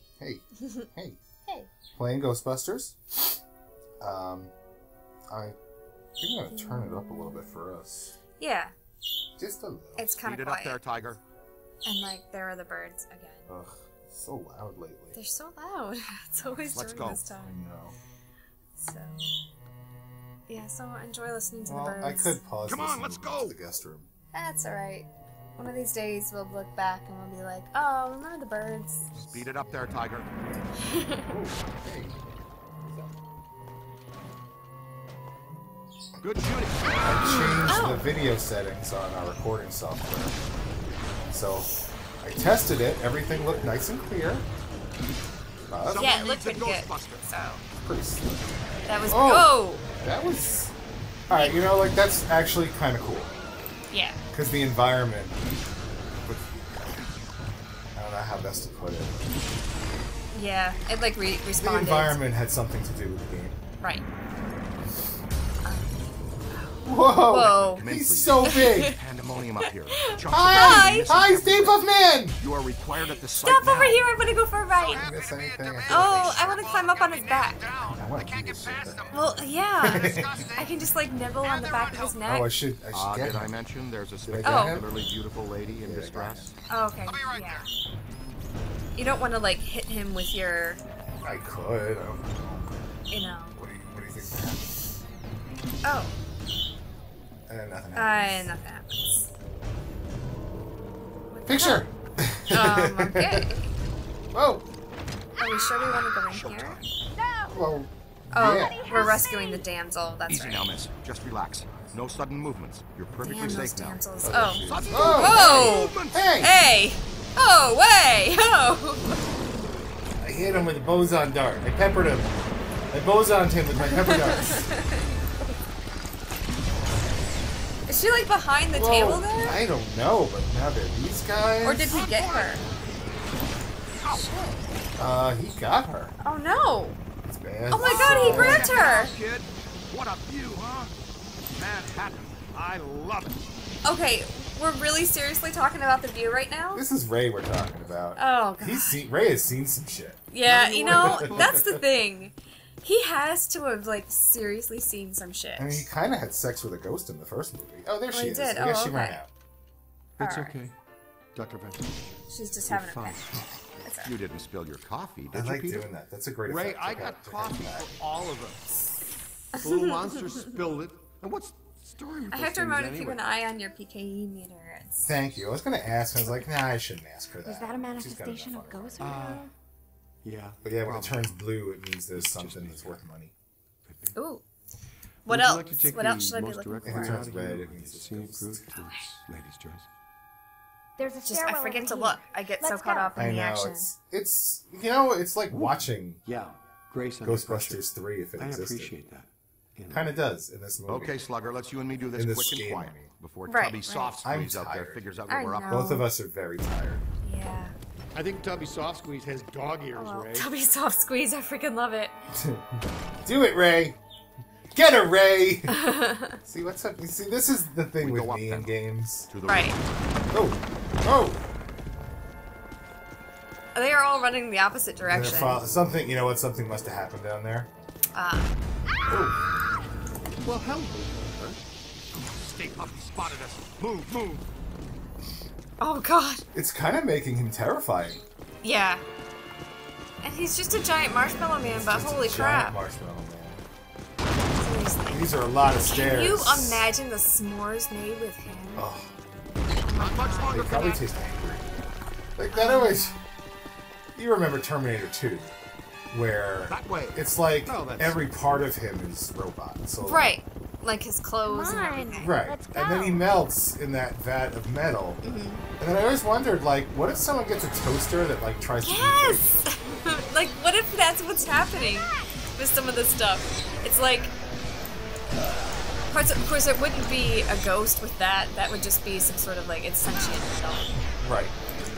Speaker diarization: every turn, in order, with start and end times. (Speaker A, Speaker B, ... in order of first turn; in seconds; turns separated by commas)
Speaker A: 0.2-1.2, Speaker B: 0.6-0.9, Speaker A: 1.9-3.0, Speaker A: 4.0-4.5, Speaker A: 5.3-5.6, Speaker A: 6.2-8.2, Speaker B: 6.5-6.9, Speaker B: 8.4-8.7, Speaker A: 9.4-10.2, Speaker B: 10.0-10.8, Speaker C: 10.2-11.2, Speaker B: 11.8-13.5, Speaker A: 13.5-15.2, Speaker B: 15.1-17.6, Speaker C: 16.7-17.2, Speaker A: 17.1-18.0, Speaker B: 18.8-19.3, Speaker B: 20.5-22.4, Speaker A: 21.6-24.1, Speaker C: 22.6-23.6, Speaker B: 24.3-29.1, Speaker A: 29.1-29.9, Speaker C: 29.1-30.3, Speaker B: 30.9-31.2, Speaker A: 31.3-32.3, Speaker A: 32.8-33.2, Speaker C: 36.2-37.2, Speaker A: 37.0-40.4, Speaker B: 37.2-38.1, Speaker A: 41.3-44.5, Speaker A: 45.7-46.1, Speaker C: 45.9-47.3, Speaker B: 46.0-47.6, Speaker A: 47.7-48.4, Speaker B: 48.9-49.9, Speaker A: 49.1-50.7, Speaker A: 51.3-53.3, Speaker B: 51.3-51.6, Speaker B: 53.9-54.2, Speaker A: 54.3-55.4, Speaker A: 56.3-57.0, Speaker A: 57.9-59.2, Speaker B: 60.3-62.2, Speaker A: 61.6-63.6, Speaker B: 65.7-66.0, Speaker B: 66.5-67.8, Speaker A: 66.8-69.0, Speaker C: 67.5-71.9, Speaker B: 68.4-69.0, Speaker B: 70.0-71.1, Speaker A: 70.3-72.4, Speaker C: 72.4-74.1, Speaker B: 73.4-75.0, Speaker C: 74.7-79.3, Speaker A: 75.0-76.4, Speaker B: 75.9-77.6, Speaker A: 77.9-80.4, Speaker B: 79.1-82.5, Speaker C: 79.9-80.8, Speaker C: 81.4-82.2, Speaker A: 82.2-83.5, Speaker C: 82.9-86.5, Speaker A: 84.2-84.9, Speaker B: 84.4-84.8, Speaker A: 85.8-86.5, Speaker B: 86.7-87.7, Speaker C: 87.1-87.7, Speaker B: 89.0-90.8, Speaker A: 91.2-92.9, Speaker B: 93.1-93.6, Speaker A: 93.5-94.8, Speaker B: 95.8-96.2, Speaker A: 97.5-98.5, Speaker B: 97.9-99.3, Speaker B: 101.3-101.9, Speaker A: 101.5-103.4, Speaker B: 102.5-103.7, Speaker A: 104.3-104.7, Speaker B: 105.4-106.8, Speaker C: 106.3-106.8, Speaker D: 107.1-107.6, Speaker A: 107.5-108.8, Speaker B: 108.3-110.8, Speaker D: 108.5-109.7, Speaker C: 110.3-114.1, Speaker B: 113.2-119.2, Speaker A: 114.2-116.5, Speaker C: 114.6-116.3, Speaker A: 120.2-122.3, Speaker A: 122.9-124.7, Speaker B: 124.0-125.5, Speaker B: 127.9-129.6, Speaker A: 128.7-132.0, Speaker B: 131.6-132.6, Speaker C: 131.9-132.7, Speaker B: 134.1-134.6, Speaker A: 135.0-136.1, Speaker B: 136.2-137.0, Speaker A: 137.3-138.8, Speaker B: 137.7-139.1, Speaker C: 137.7-140.9, Speaker C: 141.5-143.4, Speaker B: 143.8-146.8, Speaker A: 146.7-150.3, Speaker B: 148.2-149.0, Speaker B: 150.3-155.9, Speaker E: 150.5-151.6, Speaker A: 150.9-151.8, Speaker A: 155.6-159.3, Speaker B: 158.1-159.2, Speaker E: 160.2-160.8, Speaker B: 160.2-160.6, Speaker E: 161.3-161.9, Speaker B: 162.3-163.3, Speaker E: 162.6-163.4, Speaker B: 163.8-164.1, Speaker C: 164.0-165.9, Speaker A: 165.3-167.9, Speaker C: 166.4-168.6, Speaker B: 169.6-169.9, Speaker E: 169.6-173.2, Speaker B: 172.3-175.1, Speaker A: 175.0-179.2, Speaker D: 177.4-179.5, Speaker E: 179.0-179.5, Speaker E: 180.2-181.4, Speaker A: 180.6-183.3, Speaker E: 182.1-183.1, Speaker E: 183.8-184.2, Speaker B: 184.2-184.4, Speaker B: 185.3-187.2, Speaker E: 185.3-189.9, Speaker A: 186.8-188.7, Speaker D: 191.0-193.1, Speaker B: 191.2-193.9, Speaker A: 193.2-196.2, Speaker E: 195.5-200.2, Speaker A: 197.2-199.0, Speaker A: 199.9-201.3, Speaker C: 200.9-205.9, Speaker A: 202.1-203.1, Speaker B: 203.5-204.2, Speaker A: 204.2-205.1, Speaker B: 205.3-206.1, Speaker A: 205.7-207.0, Speaker B: 207.2-207.8, Speaker E: 208.1-210.5, Speaker B: 209.9-212.1, Speaker A: 212.3-214.0, Speaker A: 214.7-215.8, Speaker B: 215.7-216.4, Speaker A: 216.4-219.3, Speaker C: 218.0-218.8, Speaker C: 219.3-219.8, Speaker B: 219.5-219.8, Speaker A: 220.3-221.4, Speaker B: 223.7-225.6, Speaker A: 225.1-227.7, Speaker B: 228.1-228.5, Speaker A: 229.1-229.4, Speaker E: 230.4-231.6, Speaker C: 232.1-234.5, Speaker B: 235.8-236.4, Speaker A: 236.5-238.2, Speaker B: 238.6-239.0, Speaker B: 240.2-242.8, Speaker A: 241.7-243.6, Speaker B: 244.6-248.9, Speaker A: 245.1-246.9, Speaker A: 248.8-249.1, Speaker B: 249.8-250.9, Speaker C: 250.0-251.1, Speaker A: 250.5-251.7, Speaker A: 252.4-253.2, Speaker B: 252.5-253.3, Speaker A: 254.2-255.5, Speaker A: 256.1-260.4, Speaker C: 256.7-257.2, Speaker E: 257.7-258.7, Speaker B: 260.0-262.3, Speaker D: 261.4-263.3, Speaker A: 262.2-265.2, Speaker B: 265.2-265.6, Speaker A: 265.8-269.6, Speaker B: 268.8-274.3, Speaker B: 276.1-281.0, Speaker A: 281.2-281.6